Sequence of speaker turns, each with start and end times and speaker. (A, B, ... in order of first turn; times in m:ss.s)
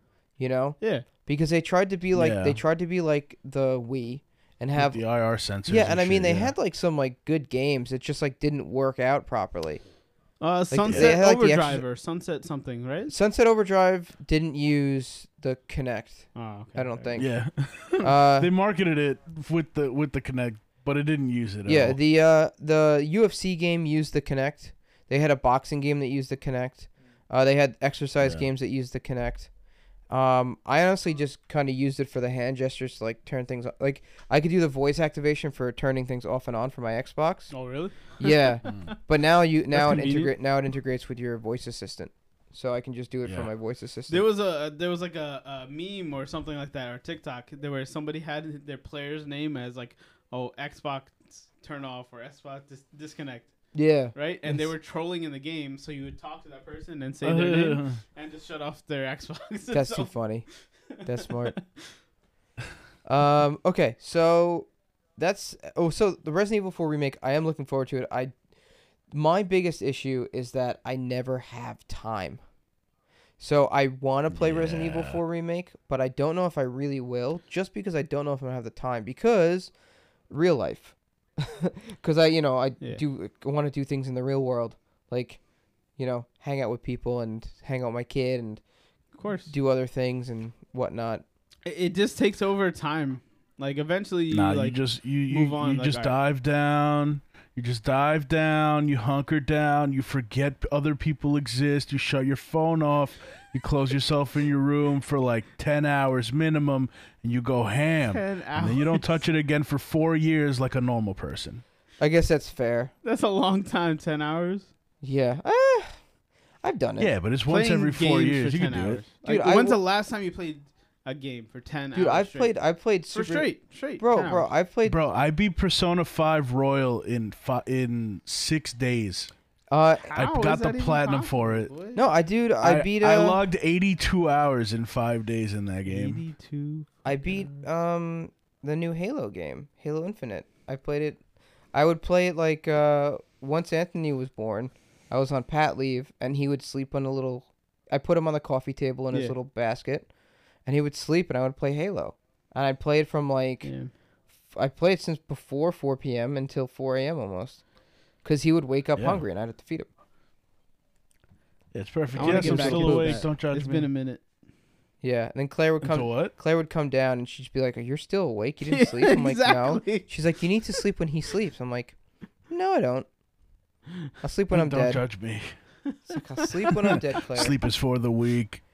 0:00.4-0:05.0 A
0:00.8-0:01.0 B
0:02.1-0:02.6 C
0:04.8-0:06.5 C
0:05.6-0:09.8 A
0:10.4-0:13.1 B
0:10.7-0:11.8 A
0:10.9-0:11.2 C
0:13.1-0:17.3 A
0:16.3-0:17.1 B
0:17.2-0:22.0 C
0:18.0-0:18.5 A
0:21.6-0:29.5 A
0:30.1-0:37.5 A
0:37.5-0:39.0 B
0:38.2-0:44.2 A
0:39.7-0:40.3 B
0:44.1-0:53.5 B
0:53.7-0:54.7 A
0:54.1-1:00.1 B
0:57.2-0:58.0 C
0:59.7-1:00.5 A
1:01.0-1:01.9 B
1:01.0-1:01.6 A
1:03.0-1:08.3 A
1:09.1-1:12.4 A
1:13.4-1:19.7 A
1:14.3-1:15.2 C
1:20.3-1:25.4 A
1:26.0-1:28.6 A
1:29.2-1:29.5 B
1:29.5-1:31.2 A
1:31.6-1:36.1 B
1:34.3-1:51.6 C
1:48.0-1:49.2 B
1:52.0-1:52.9 A
1:53.0-1:54.7 B
1:55.0-1:56.0 A
1:56.6-1:57.1 A
1:57.0-1:59.0 C
1:57.5-2:02.5 B
1:59.2-1:59.8 A
2:01.9-2:05.0 A
2:03.1-2:04.5 B
2:04.8-2:09.3 C
2:09.7-2:10.1 A
2:10.0-2:12.0 B
2:10.1-2:11.7 C
2:11.9-2:13.4 A
2:12.6-2:16.2 C
2:15.8-2:17.6 B
2:17.0-2:21.2 A
2:21.7-2:30.1 A
2:30.6-2:33.7 A
2:33.6-2:33.9 B
2:34.5-2:37.6 A
2:38.2-2:39.9 A
2:39.0-2:39.2 C
2:41.7-2:43.9 C
2:42.1-2:43.2 A
2:42.1-2:44.2 B
2:45.0-2:52.0 A
2:45.8-2:46.3 C
2:48.6-2:50.1 B
2:52.5-2:53.1 A
2:54.2-2:55.0 A
2:54.5-2:55.5 C
2:55.9-2:56.9 B
2:56.1-2:57.6 A
2:56.8-2:58.6 C